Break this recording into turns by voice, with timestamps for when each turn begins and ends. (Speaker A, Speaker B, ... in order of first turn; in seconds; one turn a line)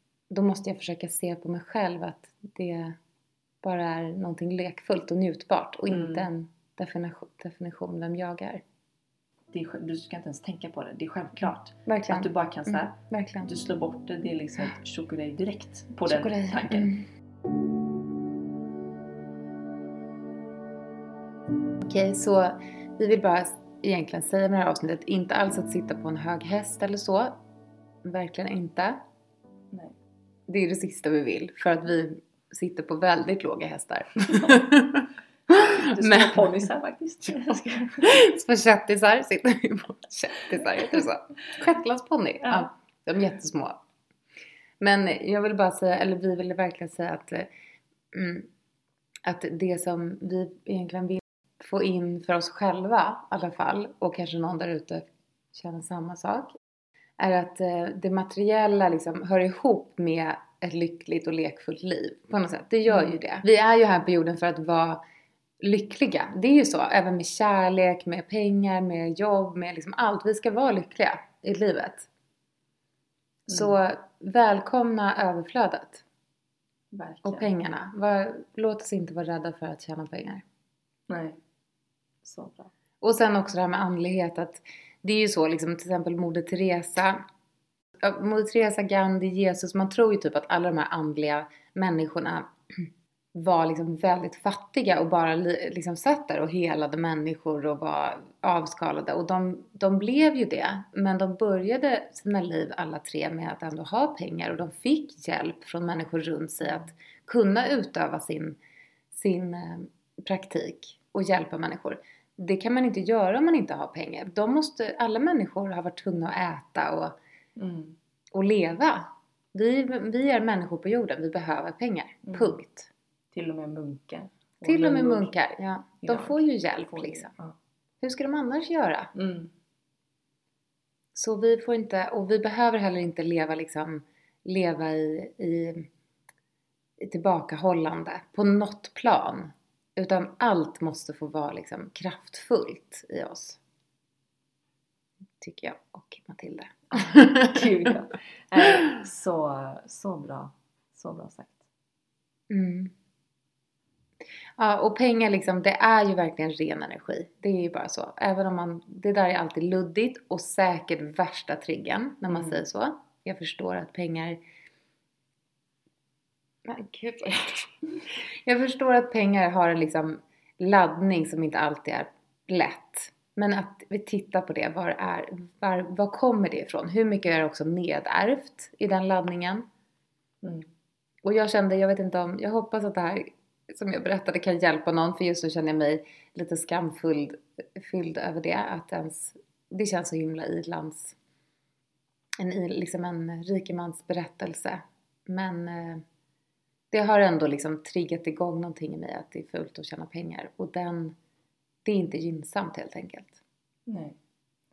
Speaker A: 0.3-3.0
Speaker A: 3.6-8.6
Speaker B: 5.9-6.3
Speaker B: 9.5-16.9
Speaker A: 11.9-13.5
Speaker A: 16.1-17.1
Speaker A: 21.8-27.4
Speaker A: 28.0-29.0
Speaker A: 30.5-36.5
Speaker B: 35.7-38.2
Speaker A: 38.0-43.8
Speaker A: 44.8-47.5
Speaker A: 48.1-48.5
Speaker A: 49.2-56.5
Speaker A: 57.2-65.0
Speaker B: 62.9-63.2
Speaker A: 65.6-72.1
Speaker B: 73.5-73.8
Speaker A: 73.5-76.0
Speaker B: 76.9-77.5
Speaker A: 77.2-80.4
Speaker B: 81.1-81.4
Speaker B: 82.2-82.7
Speaker A: 83.0-87.2
Speaker A: 88.0-108.6
Speaker A: 109.1-117.2
Speaker B: 117.6-118.0
Speaker A: 118.3-122.9
Speaker B: 122.3-122.6
Speaker B: 123.3-125.3
Speaker A: 124.7-127.3
Speaker B: 126.0-127.5
Speaker A: 128.0-129.1
Speaker B: 129.2-129.5
Speaker A: 131.1-135.9
Speaker A: 137.0-143.6
Speaker A: 145.4-147.7
Speaker B: 146.9-151.7
Speaker A: 152.5-152.9
Speaker A: 154.6-164.4
Speaker B: 162.3-162.6
Speaker A: 166.7-167.7
Speaker A: 168.4-179.7
Speaker B: 180.4-180.7
Speaker A: 181.2-191.2
Speaker A: 192.4-196.0
Speaker A: 196.9-201.2
Speaker A: 201.8-203.4
Speaker B: 203.9-204.2